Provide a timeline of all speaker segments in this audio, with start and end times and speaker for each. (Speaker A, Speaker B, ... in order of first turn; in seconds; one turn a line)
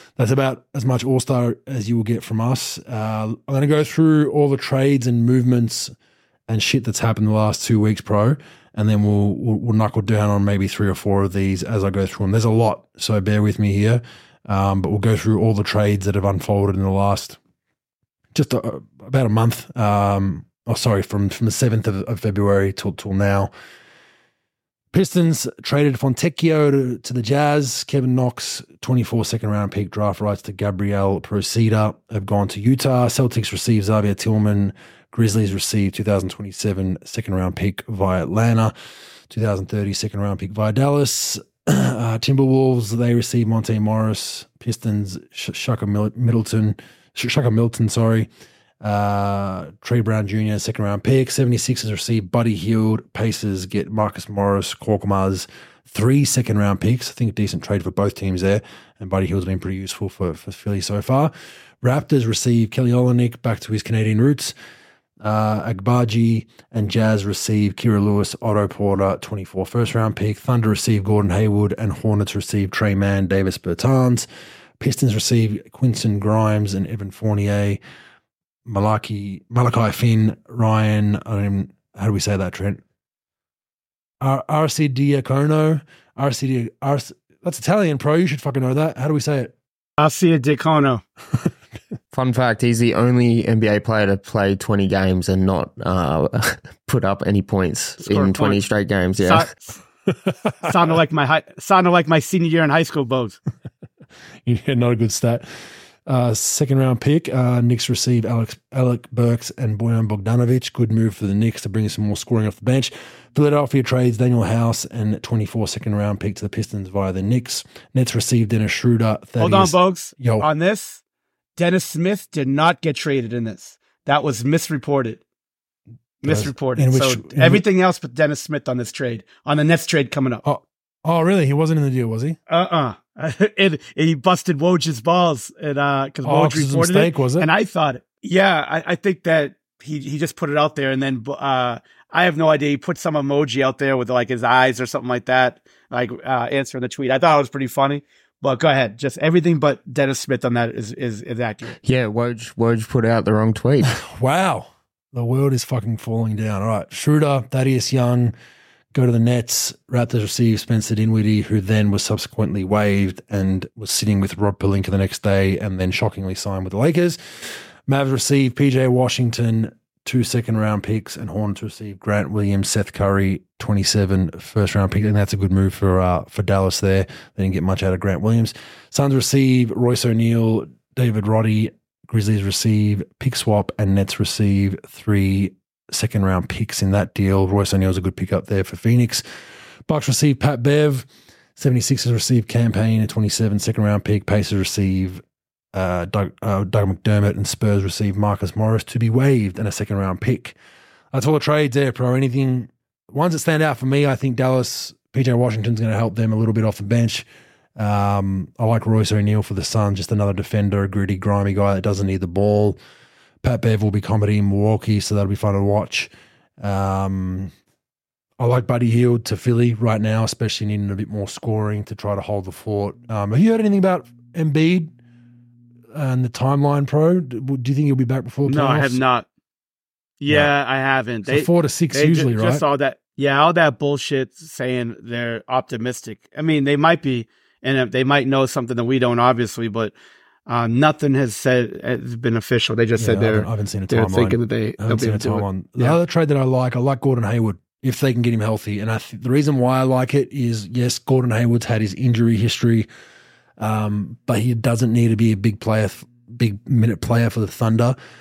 Speaker A: 0.2-5.9
Speaker A: 6.5-17.4
Speaker A: 18.3-23.5
Speaker A: 24.9-38.7
Speaker A: 39.3-48.3
Speaker A: 48.8-61.3
Speaker A: 61.8-64.5
Speaker A: 65.2-74.3
Speaker A: 74.8-77.8
Speaker A: 78.7-82.8
Speaker A: 84.2-89.5
Speaker B: 90.0-91.0
Speaker C: 92.1-99.5
Speaker B: 98.0-98.6
Speaker B: 99.2-99.8
Speaker A: 100.3-100.7
Speaker B: 100.6-103.4
Speaker A: 104.4-105.5
Speaker A: 106.0-120.5
Speaker B: 119.4-121.0
Speaker B: 121.6-125.2
Speaker B: 126.2-130.4
Speaker A: 126.2-127.6
Speaker A: 130.4-132.4
Speaker B: 132.5-151.8
Speaker A: 136.2-137.5
Speaker C: 151.8-153.9
Speaker A: 154.0-158.3
Speaker A: 158.9-189.2
Speaker A: 189.9-195.2
Speaker A: 195.7-200.6
Speaker A: 201.1-207.2
Speaker A: 207.8-212.8
Speaker A: 213.4-217.5
Speaker A: 218.4-224.9
Speaker A: 225.9-229.0
Speaker B: 228.4-229.2
Speaker B: 230.2-239.9
Speaker A: 231.3-232.6
Speaker B: 240.5-246.0
Speaker A: 243.0-252.9
Speaker A: 253.6-257.9